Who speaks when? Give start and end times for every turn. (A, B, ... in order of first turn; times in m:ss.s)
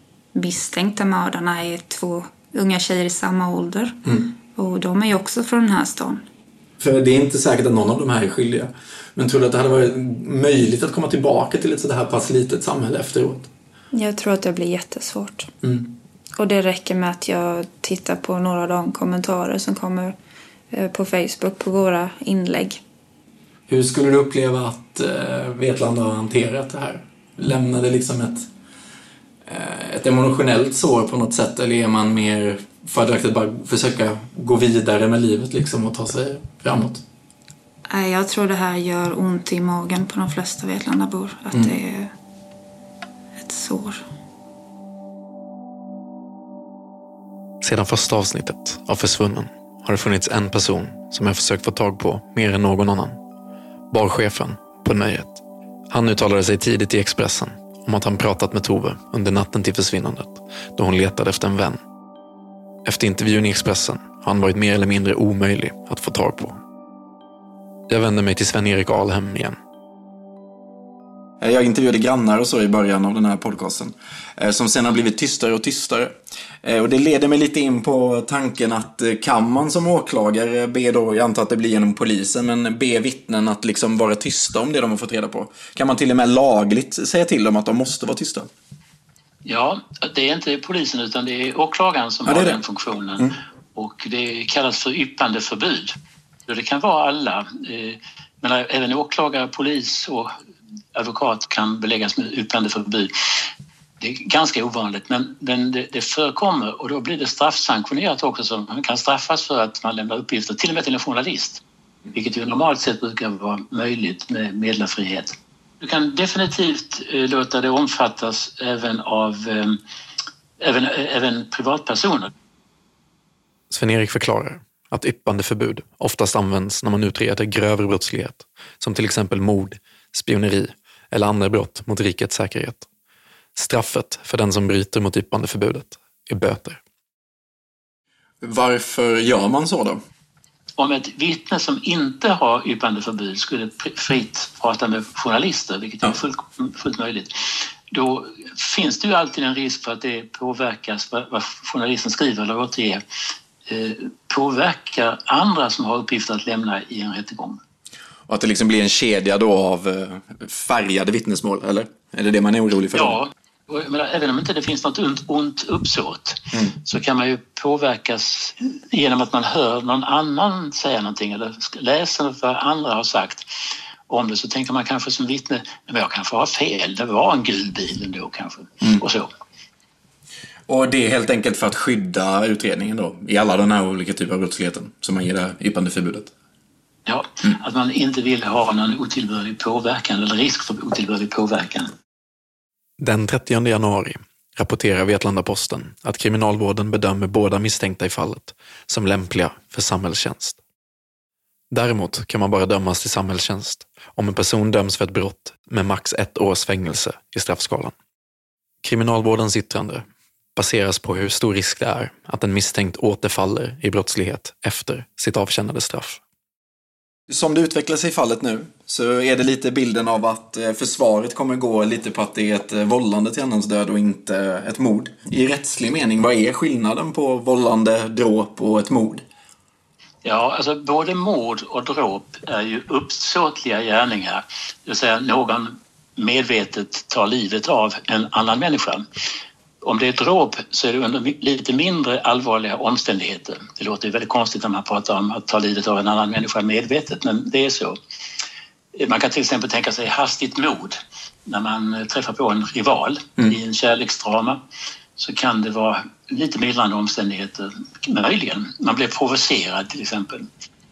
0:00.3-0:04.0 A
0:04.5-0:06.2 A
0:06.8-0:13.4 B
0:13.9-0:15.5 A
0:16.4-0:20.1 A
0:20.7-0:22.8 A
0:23.7-0:28.5 B
0:29.5-0:37.0 B
0:37.9-0:42.1 A
0:43.4-0:44.0 A
0:47.6-0:53.2 C
0:53.9-1:01.8 C
1:02.8-1:06.6 C
1:07.9-1:09.6 C
1:11.4-1:28.5 B
1:29.4-1:35.9 D
1:32.2-1:32.6 B
1:36.5-1:40.3 D
1:40.9-1:43.1 D
1:44.0-1:51.6 D
1:52.1-1:59.8 D
2:00.6-2:02.3 D
2:03.7-2:12.9 C
2:13.5-2:16.8 C
2:18.4-2:20.0 B
2:20.8-2:27.3 D
2:27.9-2:33.0 D
2:33.7-2:37.6 D
2:38.3-2:43.2 B
2:42.9-2:53.5 D
2:54.1-2:59.3 D
3:00.7-3:06.3 B
3:07.1-3:11.9 D
3:13.0-3:20.6 C
3:21.7-3:27.9 C
3:28.8-3:36.2 C
3:37.3-3:49.2 B
3:50.2-3:59.0 D
3:59.8-4:08.0 D
4:09.0-4:14.6 D
4:15.2-4:20.5 D